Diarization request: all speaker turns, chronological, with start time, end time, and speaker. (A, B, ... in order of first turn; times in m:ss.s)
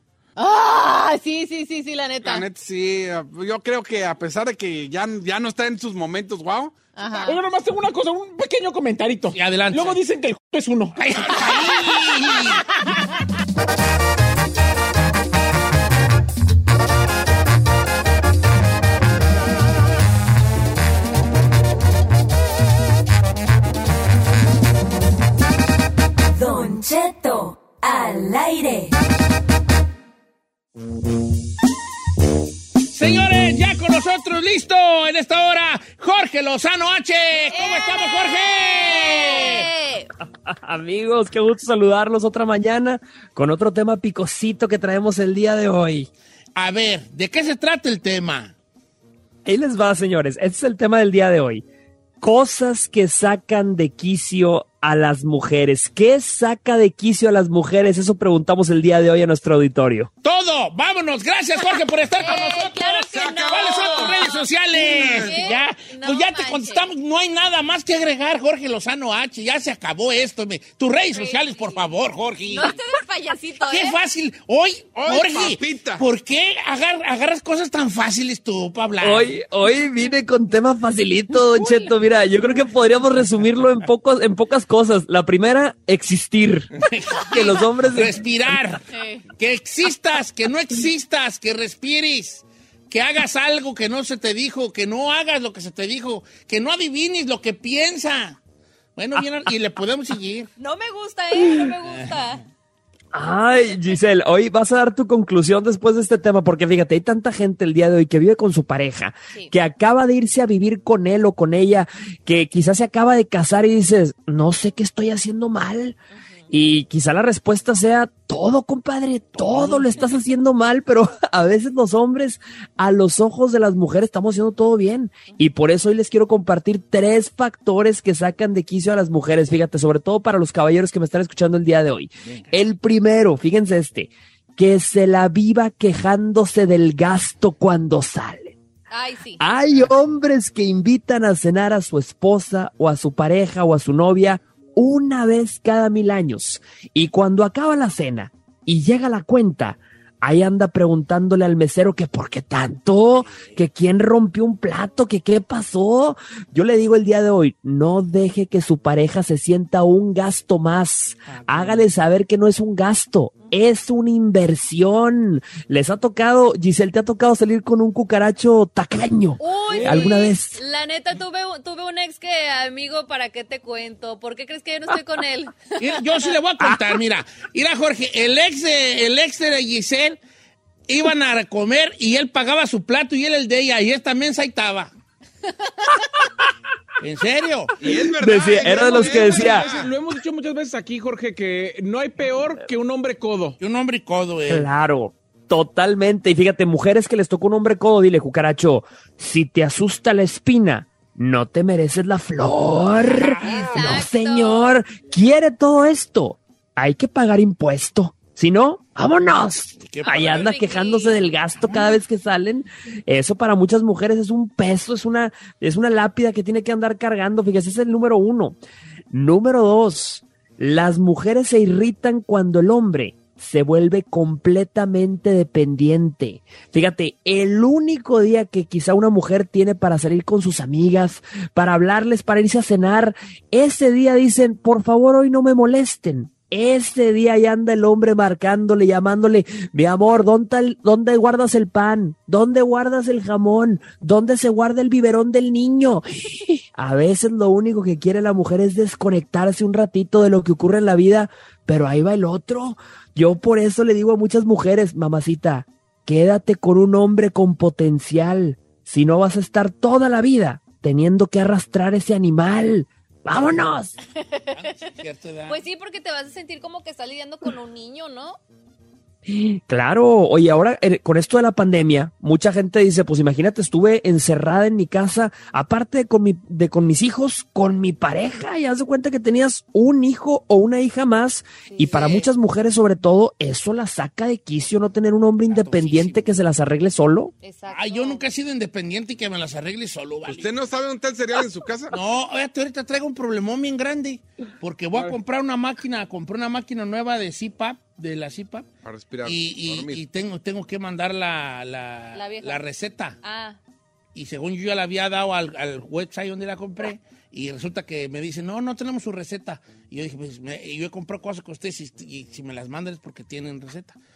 0:00.4-0:02.4 A
0:02.2-0:06.7 B
0:07.0-0:07.4 A
0:07.2-0:11.0 C
0:09.3-0:10.0 D
0:11.0-0:12.6 D
0:26.3-0:28.9 E
0:32.9-0:39.7 D
0:37.5-0:40.1 A
0:40.5-0:46.1 F
0:46.6-0:48.5 D
0:49.4-0:51.6 F
0:52.2-1:00.1 F
1:00.2-1:12.8 D
1:02.2-1:06.8 A
1:02.2-1:02.5 B
1:03.1-1:05.3 B
1:11.1-1:11.8 A
1:12.5-1:14.0 A
1:13.7-1:19.3 D
1:15.0-1:16.0 B
1:19.0-1:26.7 F
1:26.9-1:28.8 D
1:27.2-1:28.7 F
1:28.9-1:29.3 A
1:29.4-1:38.4 D
1:39.0-1:40.5 D
1:40.6-1:42.4 A
1:41.4-1:41.7 F
1:41.8-1:42.4 D
1:43.1-1:56.0 F
1:56.1-1:56.4 A
1:56.5-2:18.6 F
1:59.4-2:00.2 D
2:12.2-2:12.6 D
2:18.9-2:19.4 A
2:19.4-2:50.6 F
2:33.2-2:33.6 D
2:41.3-2:41.8 D
2:49.4-2:56.3 A
2:49.8-2:50.1 D
2:55.8-3:00.2 D
2:56.6-2:56.9 F
3:00.9-3:04.9 D
3:07.0-3:07.7 D
3:07.8-3:09.9 B
3:07.8-3:09.7 F
3:08.7-3:13.6 C
3:13.6-3:14.7 D
3:14.5-3:38.6 F
3:23.0-3:24.0 D
3:23.4-3:24.7 A
3:29.8-3:30.5 D
3:30.1-3:31.2 A
3:31.6-3:32.0 D
3:39.1-4:23.9 F
4:24.2-4:24.5 A
4:24.5-4:25.6 D
4:25.5-4:28.4 A
4:29.2-4:47.3 F
4:41.6-4:42.2 A
4:41.9-4:42.3 D
4:45.4-4:46.2 D
4:47.4-4:48.2 A
4:47.7-4:50.5 D
4:50.2-4:51.9 B
4:51.9-4:58.7 D
4:58.8-5:00.0 B
4:59.2-5:03.2 D
5:02.1-5:02.6 A
5:03.2-5:03.6 A
5:04.1-5:14.0 D